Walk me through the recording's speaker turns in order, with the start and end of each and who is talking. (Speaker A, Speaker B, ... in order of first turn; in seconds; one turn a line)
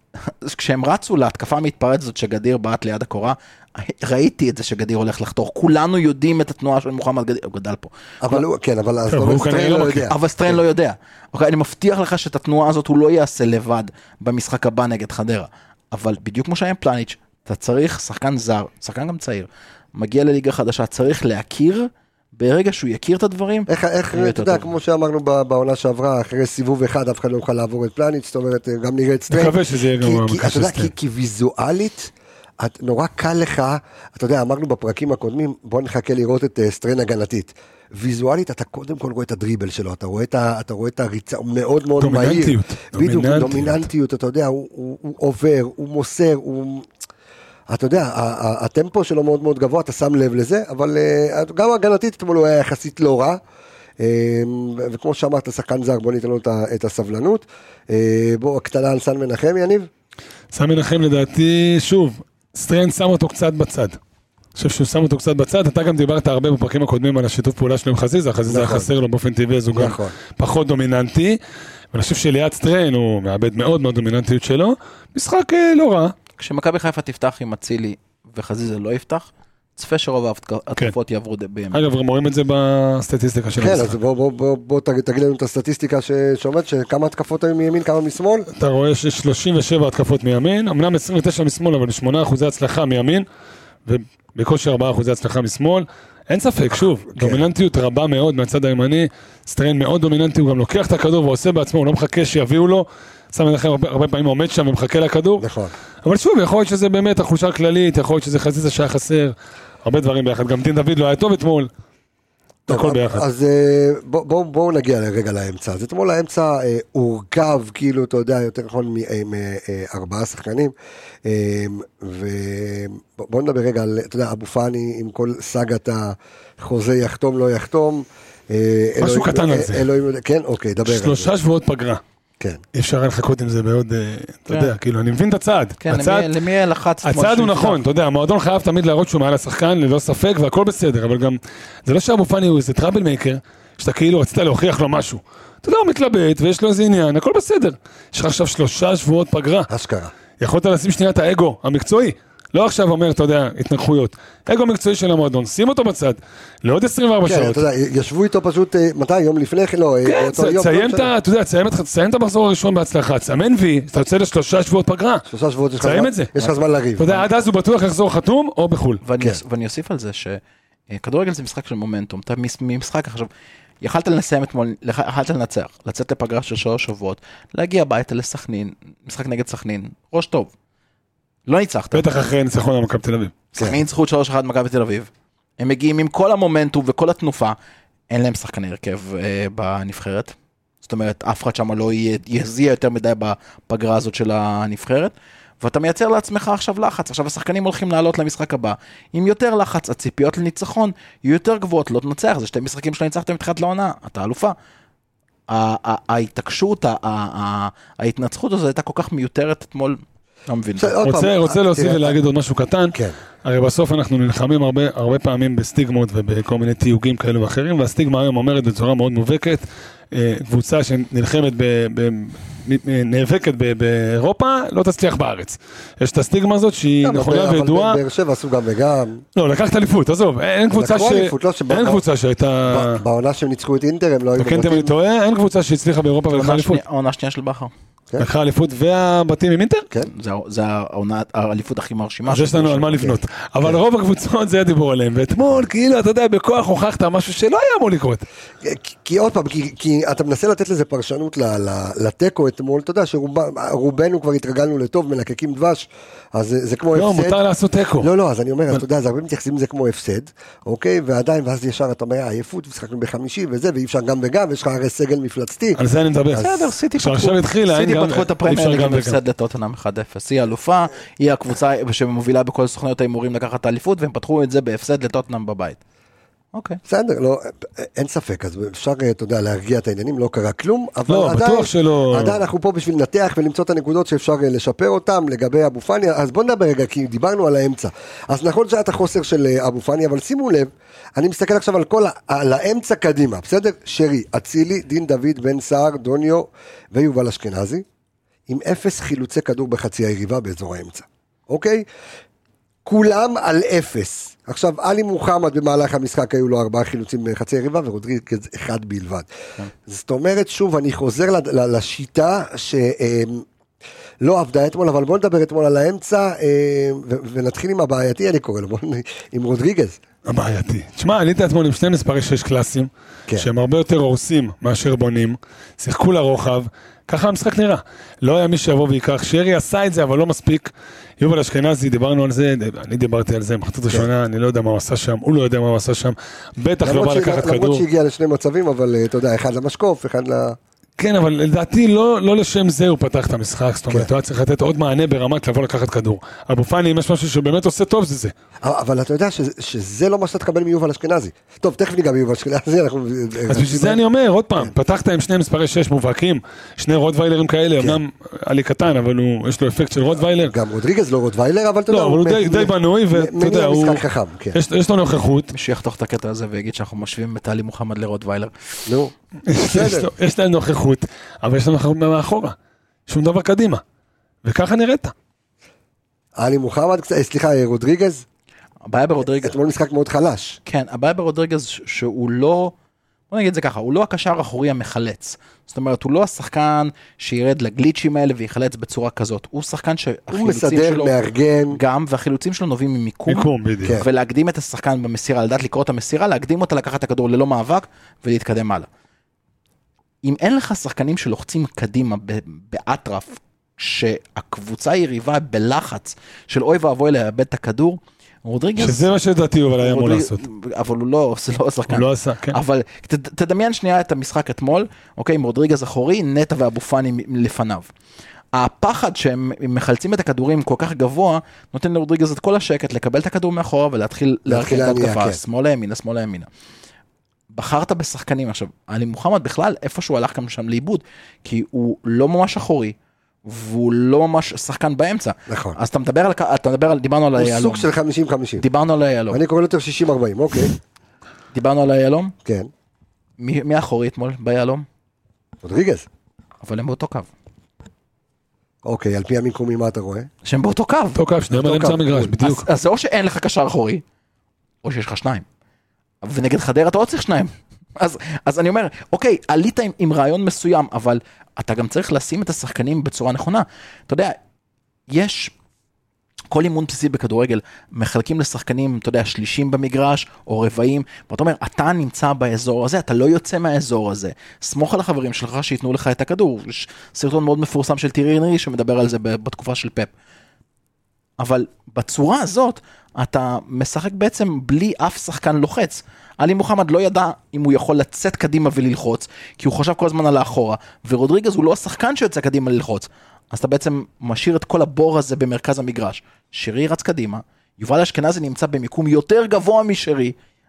Speaker A: 0.3-8.4
Speaker B: 8.2-10.6
Speaker C: 9.1-10.1
Speaker A: 10.1-24.7
Speaker B: 23.7-32.1
Speaker C: 29.3-30.9
Speaker B: 32.6-46.8
Speaker C: 42.0-43.9
Speaker B: 47.7-53.4
Speaker B: 54.0-59.9
Speaker C: 60.5-64.0
Speaker C: 64.5-71.4
Speaker B: 68.5-68.9
Speaker B: 69.7-70.1
Speaker C: 71.9-76.1
Speaker A: 76.4-81.8
Speaker C: 81.7-84.0
Speaker B: 83.6-88.5
Speaker C: 88.5-93.2
Speaker C: 93.8-105.5
Speaker B: 97.1-97.4
Speaker B: 105.4-105.7
Speaker C: 106.0-109.3
Speaker C: 109.8-111.7
Speaker B: 112.7-120.7
Speaker C: 112.7-113.2
Speaker B: 121.2-131.3
Speaker C: 129.0-129.9
Speaker C: 130.8-132.0
Speaker C: 132.7-136.3
Speaker A: 135.8-137.8
Speaker C: 137.0-149.7
Speaker B: 149.7-150.1
Speaker C: 150.4-157.6
Speaker B: 157.3-161.1
Speaker C: 160.0-165.2
Speaker B: 165.3-167.1
Speaker C: 165.8-166.3
Speaker C: 167.0-169.0
Speaker A: 169.0-173.3
Speaker A: 173.8-180.5
Speaker A: 181.5-182.1
Speaker C: 181.9-183.3
Speaker A: 183.5-187.6
Speaker A: 188.1-204.5
Speaker A: 205.5-211.0
Speaker B: 210.8-212.2
Speaker C: 211.0-228.0
Speaker B: 227.0-229.2
Speaker C: 229.3-233.0
Speaker B: 230.7-232.0
Speaker B: 232.7-234.9
Speaker C: 234.4-236.8
Speaker A: 236.3-237.7
Speaker C: 238.2-239.9
Speaker A: 240.0-243.1
Speaker C: 242.2-248.2
Speaker B: 248.6-257.3
Speaker C: 256.9-258.1
Speaker B: 258.0-265.8
Speaker C: 265.8-269.2
Speaker A: 266.4-275.8
Speaker A: 276.5-276.8
Speaker B: 276.9-297.8
Speaker C: 281.1-282.4
Speaker B: 298.5-301.8
Speaker B: 302.9-309.2
Speaker B: 309.9-313.4
Speaker B: 314.2-320.0
Speaker C: 320.2-337.8
Speaker B: 336.8-340.6
Speaker C: 341.0-348.3
Speaker B: 348.6-354.0
Speaker C: 353.5-360.5
Speaker B: 360.4-364.6
Speaker C: 361.9-365.5
Speaker A: 365.5-368.5
Speaker C: 369.5-372.5
Speaker B: 369.7-370.1
Speaker C: 373.1-373.8
Speaker C: 374.4-375.1
Speaker B: 376.4-378.2
Speaker A: 378.9-379.6
Speaker B: 379.4-380.6
Speaker A: 380.6-382.7
Speaker A: 383.3-391.1
Speaker B: 390.3-391.8
Speaker A: 391.7-398.9
Speaker C: 393.3-394.0
Speaker A: 400.2-409.1
Speaker C: 408.8-410.4
Speaker A: 409.8-417.9
Speaker C: 411.9-412.6
Speaker A: 418.5-426.5
Speaker B: 424.5-425.4
Speaker A: 427.5-437.9
Speaker B: 435.5-435.8
Speaker B: 437.4-438.6
Speaker A: 438.6-439.4
Speaker B: 439.3-440.7
Speaker A: 441.5-442.3
Speaker A: 443.4-444.9
Speaker B: 445.6-446.0
Speaker A: 446.6-447.3
Speaker B: 448.8-450.3
Speaker A: 450.4-451.2
Speaker C: 451.1-452.6
Speaker B: 451.5-452.3
Speaker A: 452.4-454.0
Speaker A: 454.8-455.4
Speaker A: 456.2-464.4
Speaker A: 465.1-465.5
Speaker A: 466.5-480.1
Speaker A: 481.4-500.3